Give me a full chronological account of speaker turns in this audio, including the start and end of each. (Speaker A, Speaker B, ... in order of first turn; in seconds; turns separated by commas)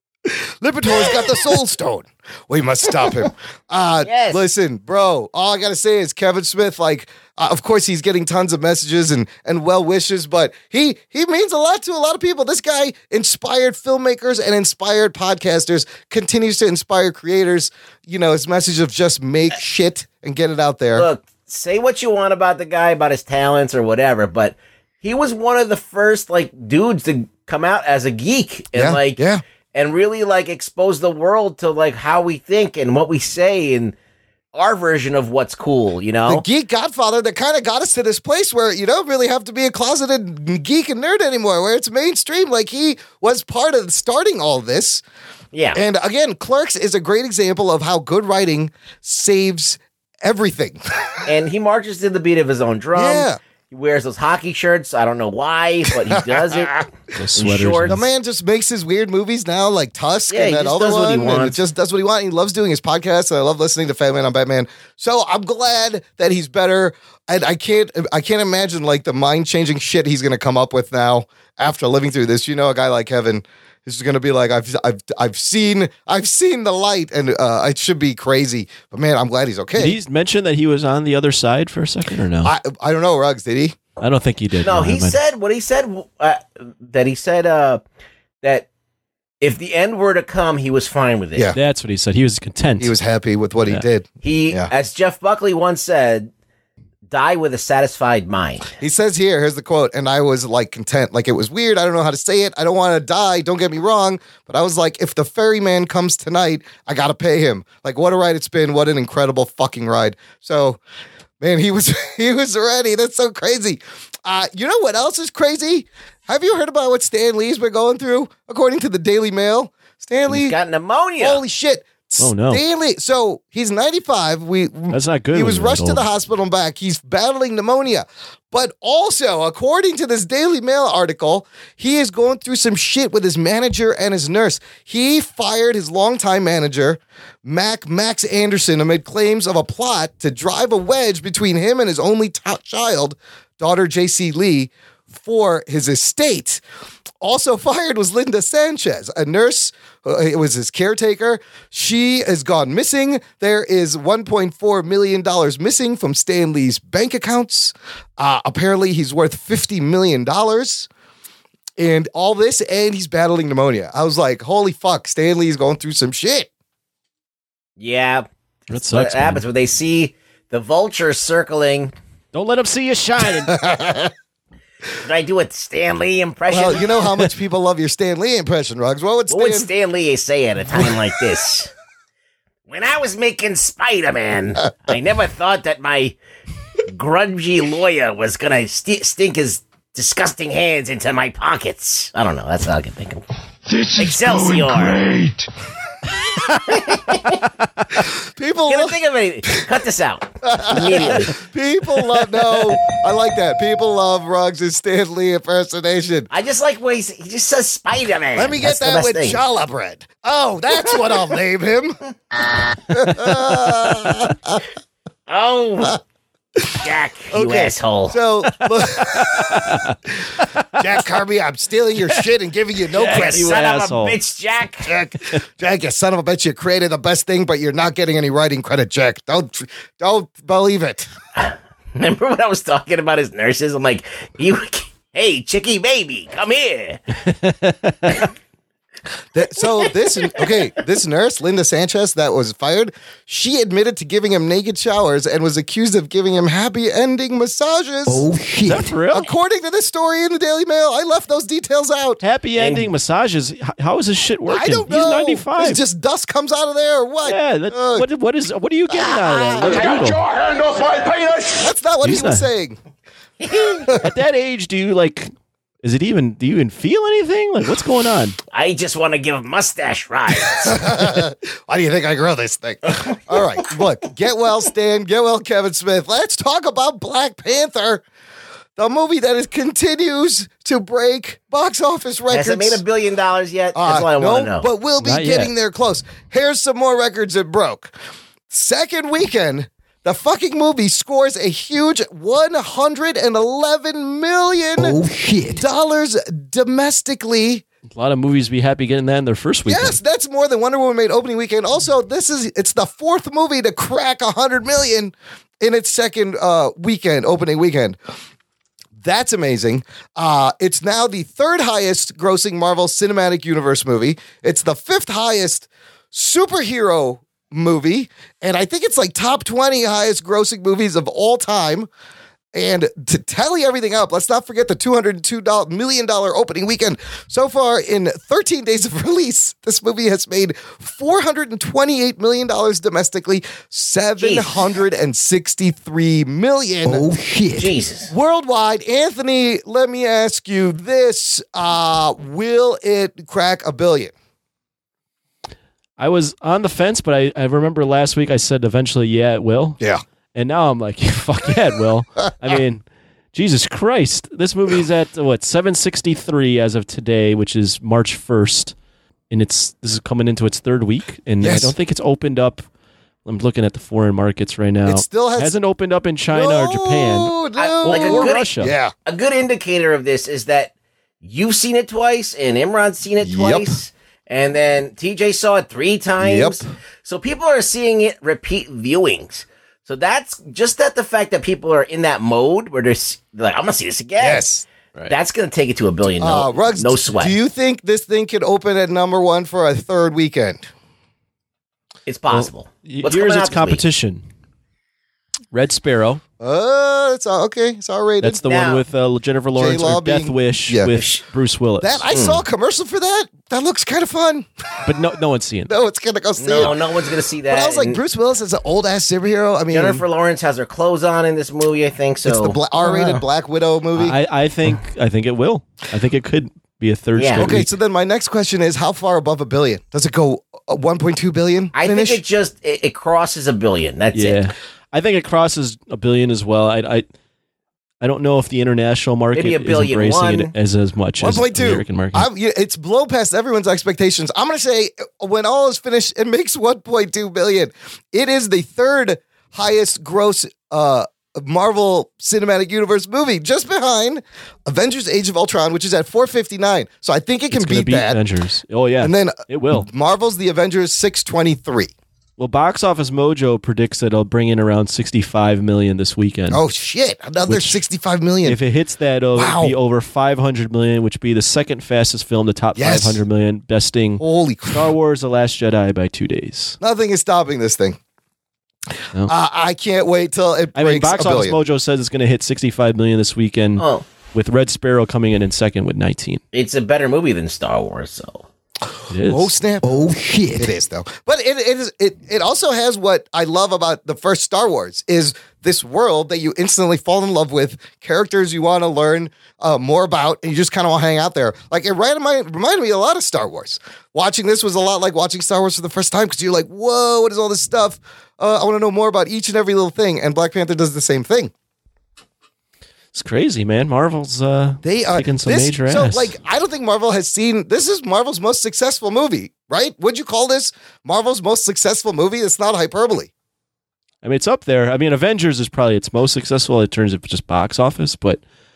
Speaker A: 0.3-21.1, Speaker B: 4.0-4.4, Speaker B: 20.9-29.2, Speaker A: 28.7-29.4, Speaker B: 29.7-34.0, Speaker B: 34.5-36.4, Speaker A: 36.3-45.0, Speaker B: 45.5-45.8, Speaker A: 45.7-50.8, Speaker B: 51.3-56.8, Speaker A: 53.0-53.4, Speaker A: 56.3-56.8, Speaker C: 57.1-58.0, Speaker B: 57.4-58.0, Speaker A: 57.9-80.0, Speaker B: 60.3-61.6, Speaker C: 79.8-82.5, Speaker A: 82.4-83.8, Speaker C: 84.0-85.2, Speaker B: 84.6-87.8, Speaker B: 89.4-91.5, Speaker C: 91.5-92.9, Speaker A: 92.8-94.7, Speaker B: 94.2-96.3, Speaker B: 97.1-98.7, Speaker A: 98.8-110.8, Speaker A: 111.4-120.5, Speaker B: 120.3-121.4, Speaker A: 121.2-146.6, Speaker C: 122.2-122.6, Speaker C: 124.9-126.0, Speaker A: 147.2-160.9, Speaker A: 161.8-166.5, Speaker B: 167.8-171.9, Speaker C: 168.7-169.4, Speaker C: 172.3-173.6, Speaker A: 173.5-174.1, Speaker B: 175.1-176.9, Speaker A: 176.5-179.7, Speaker B: 179.3-181.7, Speaker B: 182.7-186.2, Speaker B: 186.9-193.2, Speaker D: 193.7-195.5, Speaker B: 194.0-195.1, Speaker B: 196.7-197.4, Speaker A: 198.3-199.0, Speaker B: 198.7-201.4, Speaker A: 200.4-206.3, Speaker B: 206.3-209.4, Speaker A: 208.4-212.0, Speaker A: 212.9-214.6, Speaker B: 215.3-216.0, Speaker A: 216.6-219.7, Speaker B: 216.8-218.2, Speaker C: 219.1-220.8, Speaker A: 220.8-223.5, Speaker C: 222.9-224.2, Speaker B: 223.1-224.9, Speaker A: 224.8-231.1, Speaker B: 231.4-237.0, Speaker C: 237.3-238.2, Speaker A: 239.3-248.2, Speaker E: 248.1-248.9, Speaker C: 248.7-249.3, Speaker A: 249.1-252.2, Speaker C: 252.2-255.8, Speaker B: 252.6-252.9, Speaker A: 254.5-258.1, Speaker C: 257.2-260.2, Speaker D: 259.6-261.7, Speaker A: 261.6-262.8, Speaker C: 262.0-262.5, Speaker B: 263.4-263.9, Speaker C: 264.0-265.3, Speaker C: 265.8-268.4, Speaker B: 268.5-270.9, Speaker A: 270.6-278.0, Speaker A: 278.8-282.8, Speaker B: 282.3-284.7, Speaker A: 283.8-287.9, Speaker C: 285.0-285.5, Speaker A: 288.5-295.0, Speaker E: 294.8-295.6, Speaker A: 295.6-297.6, Speaker C: 297.9-300.0, Speaker A: 299.7-308.0, Speaker A: 309.0-321.9, Speaker A: 322.5-337.0, Speaker B: 334.2-334.7, Speaker E: 336.9-337.7, Speaker B: 337.6-338.1, Speaker A: 338.1-344.1, Speaker C: 346.0-349.8, Speaker C: 350.4-358.8, Speaker C: 359.3-362.6, Speaker A: 361.4-361.7, Speaker C: 363.2-368.7, Speaker A: 364.9-365.6, Speaker A: 366.3-368.9, Speaker B: 367.6-368.5, Speaker B: 369.1-370.7, Speaker B: 371.2-384.5, Speaker A: 373.2-373.7, Speaker A: 376.2-376.6, Speaker A: 384.2-384.7, Speaker B: 385.1-387.3, Speaker A: 386.2-390.7, Speaker B: 392.1-393.8, Speaker C: 392.3-394.2, Speaker C: 395.5-396.2, Speaker A: 396.4-398.4, Speaker C: 398.2-402.0, Speaker B: 398.5-398.8, Speaker A: 399.6-400.9, Speaker B: 400.9-401.2, Speaker A: 401.8-404.5, Speaker B: 402.1-402.4, Speaker C: 404.9-405.7, Speaker A: 405.7-406.8, Speaker B: 406.4-408.0, Speaker A: 407.5-410.0, Speaker B: 409.7-413.2, Speaker A: 412.2-414.2, Speaker C: 414.0-417.7, Speaker B: 417.1-417.5, Speaker A: 417.4-422.2, Speaker B: 421.8-424.4, Speaker C: 424.1-427.1, Speaker C: 428.0-432.3, Speaker B: 429.3-430.5, Speaker A: 431.2-448.2, Speaker C: 447.5-449.9, Speaker A: 449.0-451.9, Speaker C: 452.4-456.6, Speaker A: 456.5-458.6, Speaker C: 457.5-457.8, Speaker C: 458.4-466.8, Speaker A: 459.4-459.7, Speaker A: 462.8-463.2, Speaker A: 464.2-464.9, Speaker A: 466.8-468.0, Speaker A: 469.3-471.6, Speaker C: 470.8-476.4, Speaker B: 473.8-474.0, Speaker B: 476.5-478.5, Speaker C: 479.1-479.5, Speaker A: 479.2-479.9, Speaker E: 479.8-480.7, Speaker A: 480.6-501.5, Speaker C: 503.1-506.3, Speaker A: 504.8-513.3, Speaker C: 514.2-518.4